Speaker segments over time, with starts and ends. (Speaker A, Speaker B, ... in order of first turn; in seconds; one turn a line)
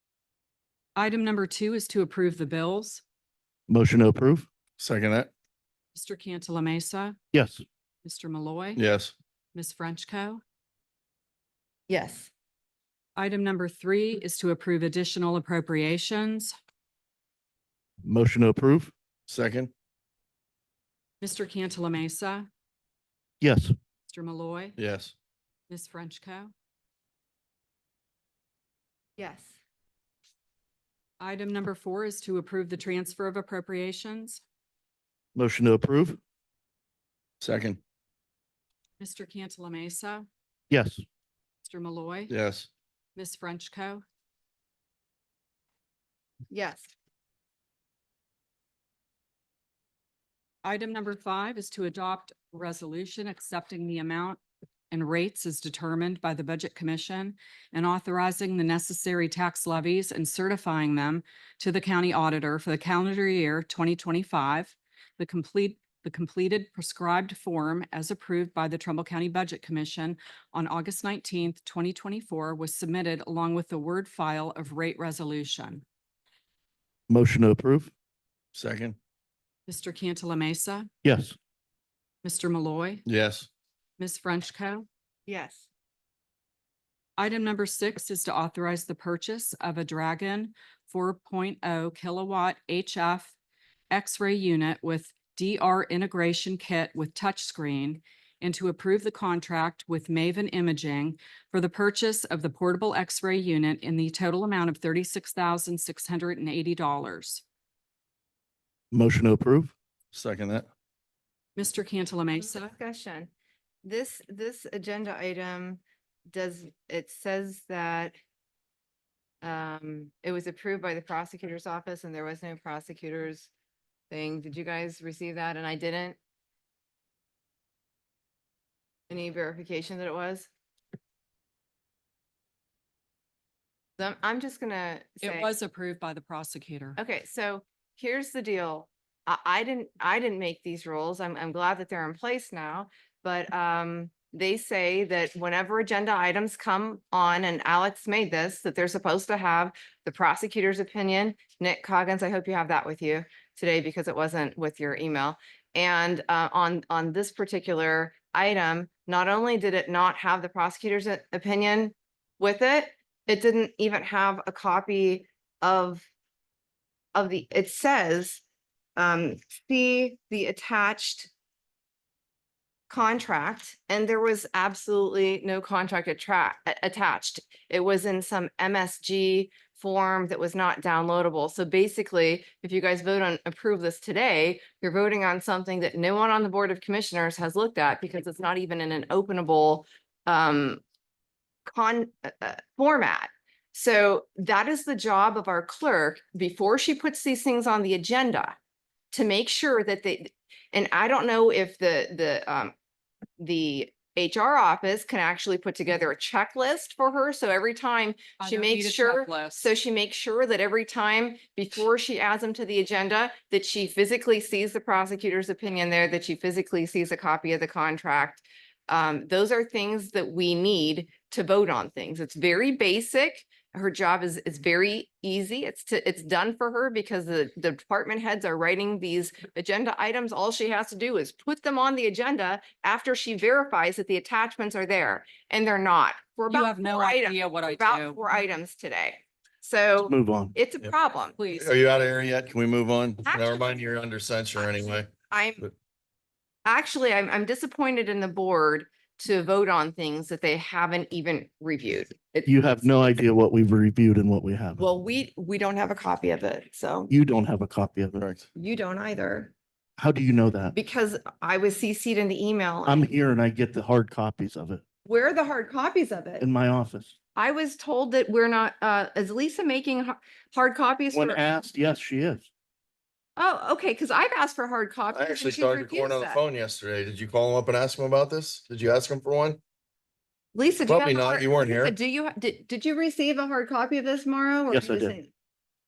Speaker A: 0.9-3.0
Speaker B: 3.7-4.5
Speaker C: 4.8-5.3
Speaker A: 5.9-7.2
Speaker B: 7.3-7.6
Speaker A: 8.0-8.8
Speaker C: 8.8-9.1
Speaker A: 9.5-10.4
Speaker D: 11.9-12.3
Speaker A: 13.2-16.5
Speaker B: 18.0-18.9
Speaker C: 19.3-19.7
Speaker A: 21.2-22.5
Speaker B: 23.4-23.7
Speaker A: 24.1-24.8
Speaker C: 24.8-25.1
Speaker A: 25.7-26.5
Speaker D: 29.2-29.6
Speaker A: 31.2-34.4
Speaker B: 35.3-36.2
Speaker C: 37.4-37.8
Speaker A: 39.0-40.3
Speaker B: 40.7-41.0
Speaker A: 41.6-42.3
Speaker C: 42.3-42.7
Speaker A: 43.1-44.0
Speaker D: 46.5-46.9
Speaker A: 50.6-54.4
Speaker A: 54.9-75.8
Speaker B: 77.1-77.9
Speaker C: 78.5-79.0
Speaker A: 79.7-80.9
Speaker B: 81.0-81.3
Speaker A: 82.2-83.0
Speaker C: 83.0-83.5
Speaker A: 84.0-84.8
Speaker D: 85.3-85.7
Speaker A: 87.2-93.3
Speaker A: 93.9-107.4
Speaker B: 108.9-109.7
Speaker C: 110.1-110.7
Speaker A: 111.5-112.6
Speaker D: 112.4-113.3
Speaker D: 113.8-118.1
Speaker D: 119.4-123.5
Speaker D: 124.1-126.2
Speaker D: 129.1-130.5
Speaker D: 134.0-135.5
Speaker A: 135.2-137.0
Speaker D: 137.0-166.1
Speaker D: 167.1-168.4
Speaker D: 168.9-171.3
Speaker D: 172.9-190.8
Speaker D: 191.7-198.6
Speaker D: 199.1-202.7
Speaker D: 203.4-241.4
Speaker A: 208.4-209.7
Speaker A: 236.5-238.3
Speaker B: 240.0-240.6
Speaker A: 241.4-241.8
Speaker C: 241.5-245.1
Speaker D: 243.2-243.7
Speaker D: 245.1-245.7
Speaker D: 246.7-253.2
Speaker B: 252.4-254.8
Speaker D: 254.8-257.1
Speaker B: 257.1-258.2
Speaker C: 258.1-258.5
Speaker D: 258.6-259.5
Speaker B: 260.0-260.7
Speaker D: 260.7-263.1
Speaker B: 262.9-264.8
Speaker D: 265.1-266.4
Speaker B: 266.4-267.1
Speaker D: 267.3-271.4
Speaker B: 271.1-272.5
Speaker D: 273.4-276.4
Speaker C: 275.1-279.6
Speaker D: 280.5-285.3
Speaker C: 280.9-281.9
Speaker B: 284.7-285.1